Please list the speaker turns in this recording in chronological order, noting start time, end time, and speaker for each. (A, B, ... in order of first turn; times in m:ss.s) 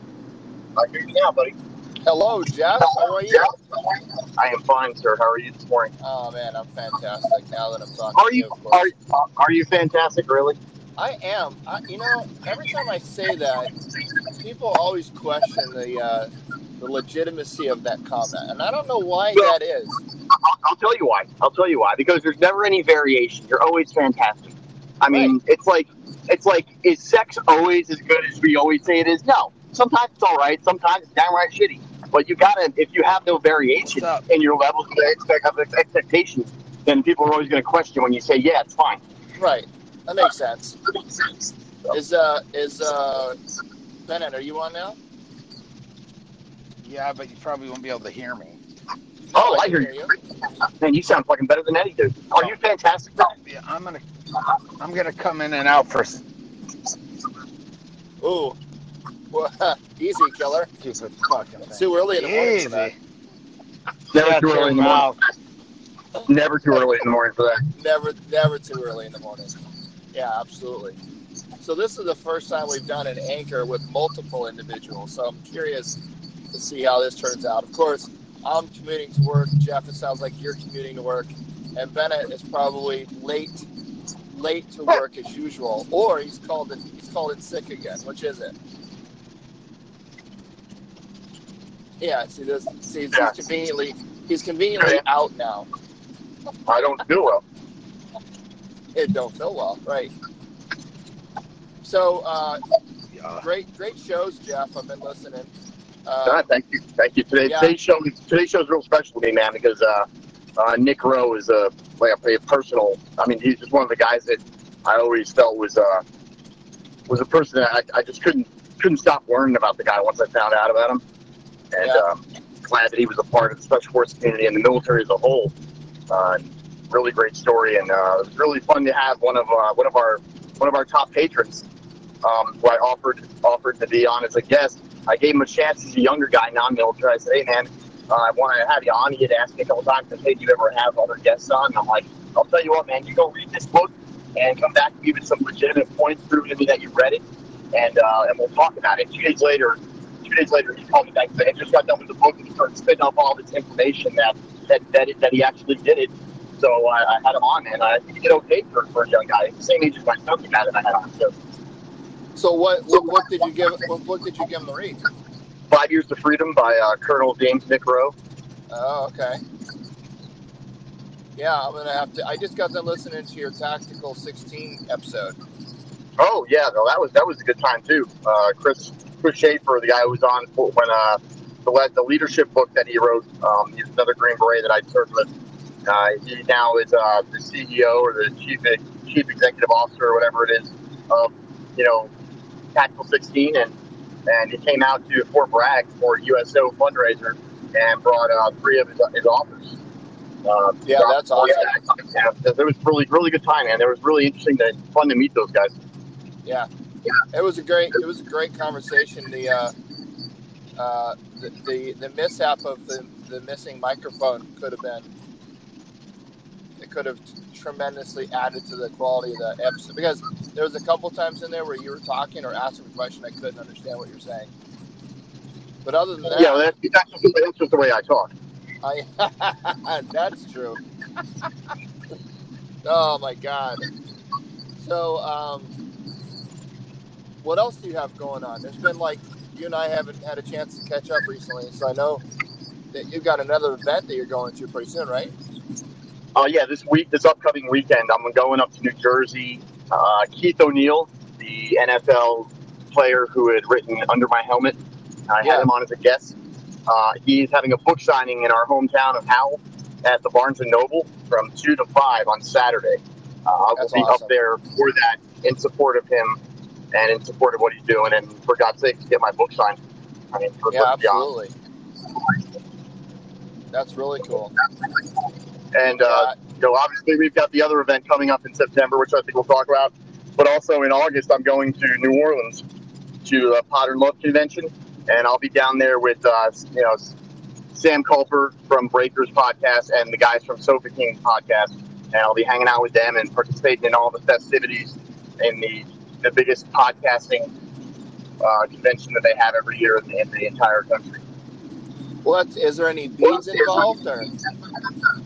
0:00.8-0:01.6 A
0:02.0-0:03.5 B
0:04.2-0:05.9 A
0:06.0-0:08.9 B
0:08.2-0:10.6 A
0:11.0-0:13.7 B
0:14.3-0:20.0 B
0:20.3-0:39.0 A
0:33.9-0:34.2 C
0:39.4-0:40.8 B
0:41.9-0:43.4 B
0:44.0-0:45.0 B
0:46.8-0:48.6 C
0:49.3-0:50.1 B
0:49.3-0:50.1 A
0:50.8-0:53.3 A
0:53.2-0:56.2 C
0:58.2-0:58.6 B
0:59.3-1:00.7 B
1:00.8-1:03.0 C
1:01.7-1:02.9 B
1:04.1-1:05.1 A
1:04.1-1:05.2 C
1:06.2-1:07.6 A
1:07.7-1:09.5 B
1:10.1-1:11.0 B
1:11.6-1:16.0 B
1:16.5-1:23.7 B
1:24.3-1:28.5 B
1:32.0-1:35.7 B
1:36.7-1:37.4 A
1:38.9-1:40.1 B
1:41.8-1:42.6 B
1:43.1-1:43.4 C
1:43.4-1:45.5 B
1:46.1-1:46.4 B
1:46.2-1:56.0 A
1:47.4-1:47.7 B
1:57.1-2:01.0 A
2:01.7-2:05.5 A
2:06.1-2:11.6 A
2:12.2-2:27.2 A
2:27.7-2:41.3 A
2:42.4-2:45.0 B
2:45.7-2:48.1 A
2:48.7-2:49.4 B
2:51.4-2:55.4 B
2:56.2-3:05.3 A
3:05.8-3:12.1 A
3:12.7-3:13.7 A
3:14.3-3:19.8 A
3:20.4-3:25.7 A
3:20.8-3:21.7 B
3:27.3-3:29.7 B
3:30.8-3:35.1 B
3:36.8-3:44.5 B
3:45.8-3:46.6 B
3:46.2-3:48.3 A
3:48.8-3:50.8 B
3:52.8-3:53.8 B
3:54.8-3:55.7 B
3:57.4-4:02.2 B
4:02.9-4:05.3 B
4:06.3-4:14.8 A
4:15.3-4:16.3 A
4:15.4-4:15.7 B
4:16.9-4:26.4 A
4:23.8-4:24.3 B
4:26.9-4:29.8 A
4:30.3-4:31.3 A
4:30.7-4:31.5 B
4:33.7-4:34.5 B
4:35.7-4:42.6 A
4:36.0-4:36.3 B
4:43.2-4:47.1 A
4:47.7-4:57.5 A
4:58.4-5:01.2 A
5:02.2-5:04.3 B